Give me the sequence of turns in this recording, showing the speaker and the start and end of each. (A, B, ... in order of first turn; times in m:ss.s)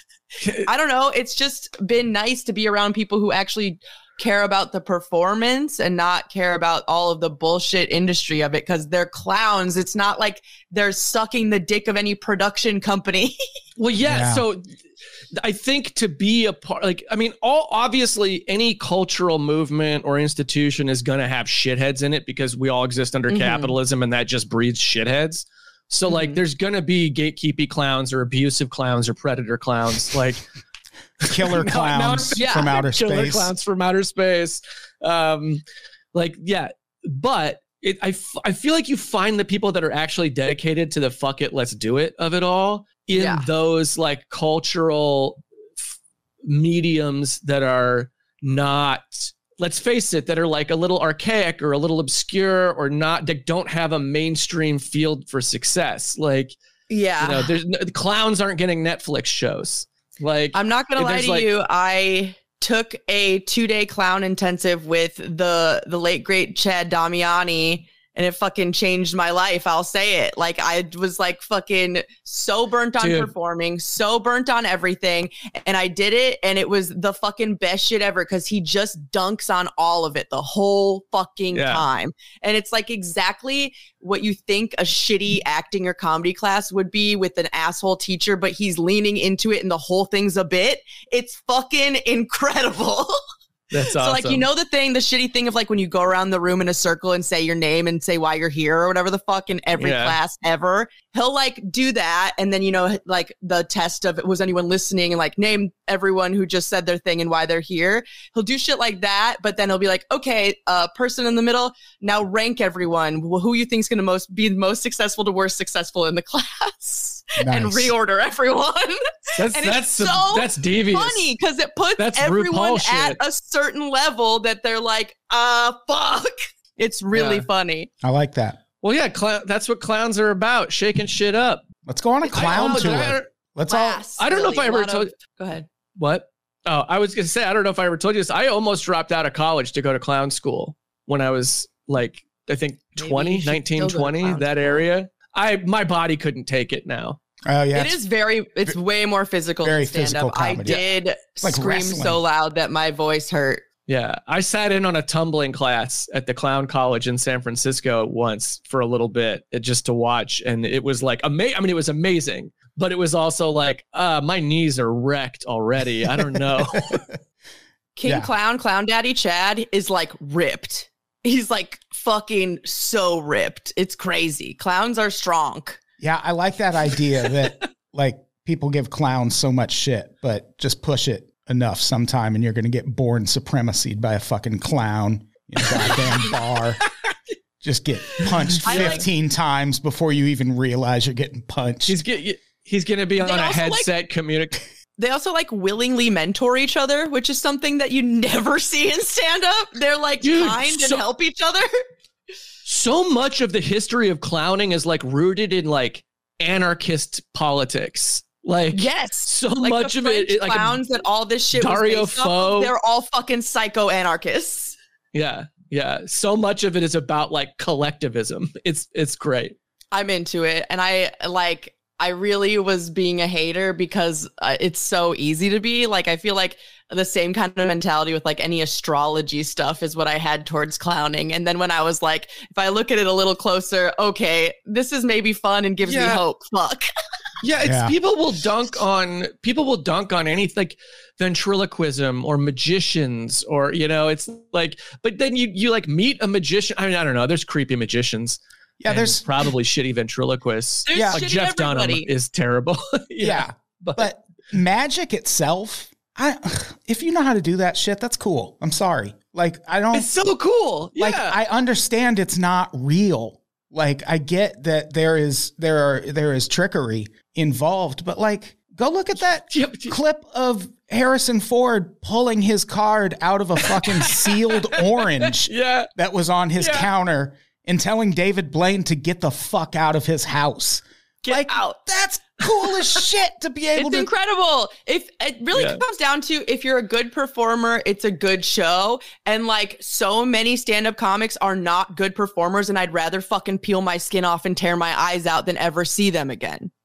0:00.4-0:00.7 A
0:00.6-0:13.4 B
0:13.8-0:14.7 A
0:14.0-0:14.4 C
0:15.4-0:30.5 A
0:23.3-0:23.8 B
0:26.0-0:26.4 B
0:31.2-0:35.6 A
0:31.3-0:33.5 C
0:32.4-0:32.7 B
0:36.1-0:45.9 A
0:43.1-0:43.4 B
0:46.4-0:56.6 A
0:56.9-0:57.5 B
0:57.2-1:01.5 A
1:00.5-1:33.2 B
1:13.0-1:13.3 A
1:21.5-1:21.8 A
1:33.7-1:34.4 A
1:33.9-2:07.9 B
1:39.8-1:40.2 A
1:57.4-1:57.9 C
1:59.4-2:01.3 A
2:02.0-2:03.2 A
2:07.1-2:07.4 A
2:08.0-2:08.6 C
2:08.8-2:11.6 A
2:11.8-2:14.0 C
2:12.3-2:13.3 A
2:12.4-2:13.1 B
2:13.7-2:15.7 B
2:14.2-2:15.1 A
2:16.0-2:27.2 A
2:23.0-2:24.8 B
2:27.4-2:28.0 C
2:27.7-2:33.6 B
2:29.6-2:30.8 C
2:31.4-2:32.2 C
2:33.9-2:47.0 A
2:46.7-2:47.0 C
2:48.0-2:55.8 B
2:48.0-2:48.3 C
2:56.0-3:06.8 C
3:05.7-3:06.2 A
3:07.6-3:11.9 C
3:08.6-3:09.0 B
3:08.6-3:09.0 A
3:11.8-3:14.6 A
3:13.2-3:13.9 B
3:15.0-3:21.7 B
3:20.2-3:21.0 A
3:22.6-3:30.8 A
3:28.7-3:34.8 B
3:31.6-3:32.7 A
3:35.1-3:39.5 A
3:39.9-3:56.9 B
3:55.8-3:56.2 A
3:57.4-4:14.1 A
3:57.6-3:57.9 C
4:08.8-4:09.2 C
4:10.9-4:12.1 B
4:10.9-4:11.2 C
4:13.2-4:20.1 C
4:19.9-4:21.4 A
4:21.0-4:44.1 C
4:29.5-4:30.0 A
4:33.7-4:35.9 A
4:36.6-4:36.9 A
4:41.2-4:41.9 B
4:43.7-4:56.7 B
4:45.5-4:45.8 A